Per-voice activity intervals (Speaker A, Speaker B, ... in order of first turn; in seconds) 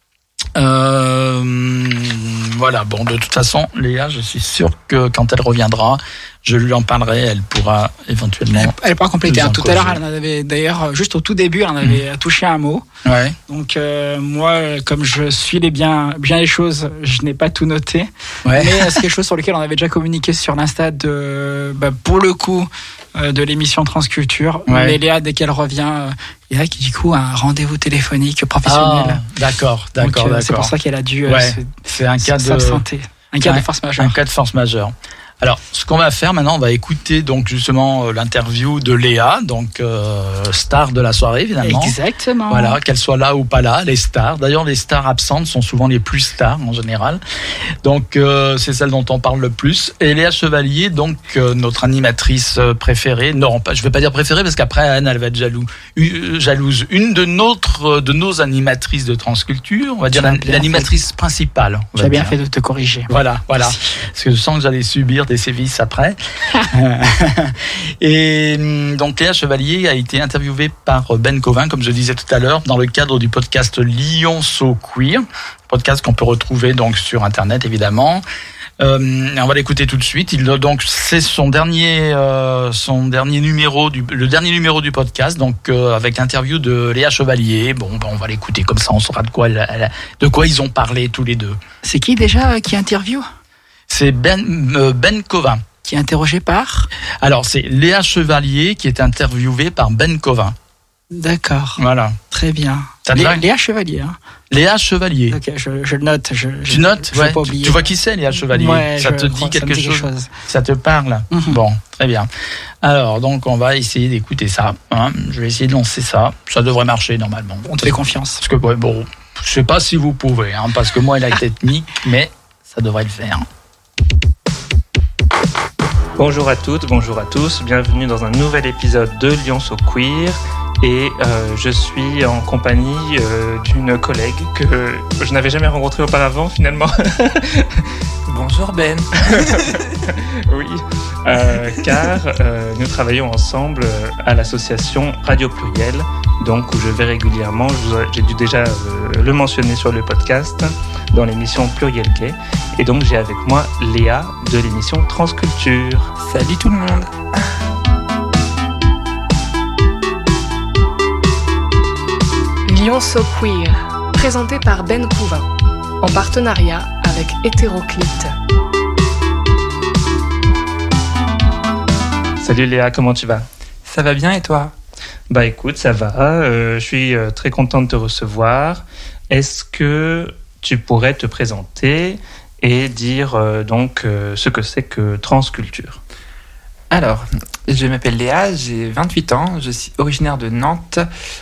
Speaker A: 0.5-8.7, 9.2-10.0, 13.1-13.3, 18.4-19.0, 24.7-25.0, 28.6-30.7, 31.3-32.8, 33.4-41.9, 42.5-47.2, 47.8-62.3, 63.1-66.2, 66.7-78.2, 78.8-91.6, 93.9-95.6, 97.2-100.5, 101.8-102.2, 103.1-103.4, 104.5-105.4, 106.7-112.3, 112.8-123.5
Speaker B: 8.5-12.8, 13.5-29.2, 30.0-34.2, 41.6-42.8, 60.1-60.9, 62.0-63.8, 91.8-93.2, 95.8-96.9, 101.1-101.8, 102.3-104.2, 105.3-107.8, 108.5-110.3, 111.3-111.6, 117.7-118.4
Speaker C: 126.2-137.8, 139.3-139.6, 140.1-156.1, 172.4-173.4, 175.3-186.0
Speaker D: 138.3-139.5, 156.2-157.1, 173.9-174.7, 186.9-191.1
Speaker E: 162.7-165.5, 166.0-168.3